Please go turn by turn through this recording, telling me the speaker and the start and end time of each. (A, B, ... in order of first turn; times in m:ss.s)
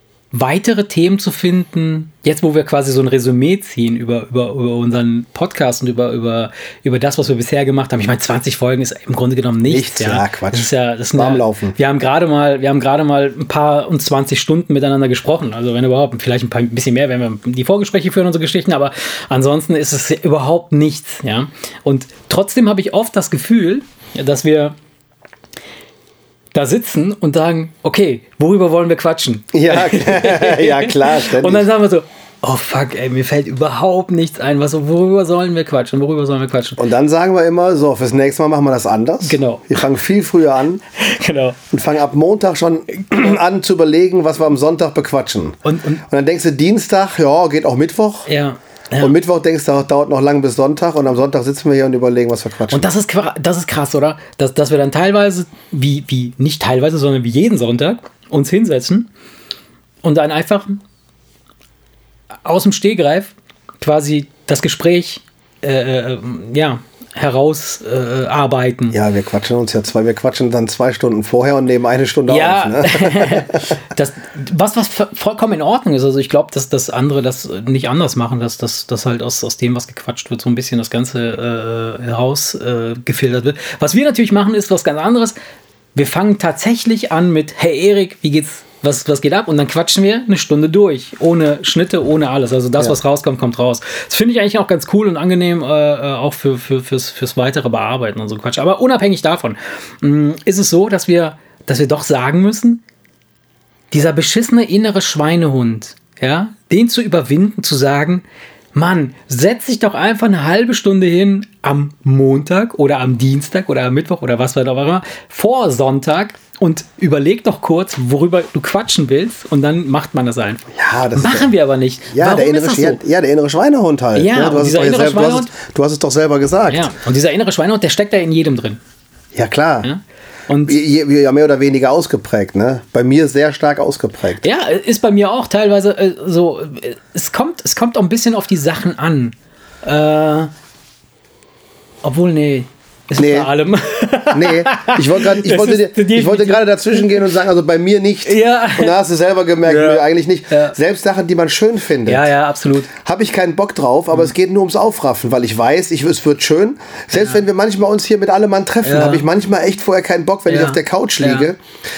0:00.3-0:24.8 A
0:09.7-0:11.8 B
0:26.5-0:36.8 A
0:29.5-0:31.7 B
0:36.8-0:40.8 B
0:39.2-0:39.7 A
0:41.0-0:41.6 A
0:41.7-0:48.3 B
0:45.6-0:46.0 A
0:48.3-0:49.2 A
0:49.0-0:52.9 B
0:52.7-0:59.1 A
1:00.0-1:00.8 A
1:02.4-1:09.0 A
1:08.9-1:13.7 B
1:12.3-1:25.4 A
1:26.0-1:42.8 A
1:43.9-2:03.0 A
2:00.7-2:01.5 B
2:02.1-2:06.9 B
2:04.1-2:05.5 A
2:06.7-2:08.8 A
2:09.3-2:09.9 B
2:09.8-2:10.8 A
2:10.7-2:14.4 B
2:14.4-2:20.5 A
2:22.0-2:27.3 A
2:23.2-2:23.5 B
2:24.3-2:32.3 B
2:28.2-2:29.0 A
2:29.6-2:30.8 A
2:32.1-2:32.9 A
2:33.0-2:41.6 B
2:37.2-2:37.4 A
2:38.8-2:39.2 A
2:40.5-2:41.5 A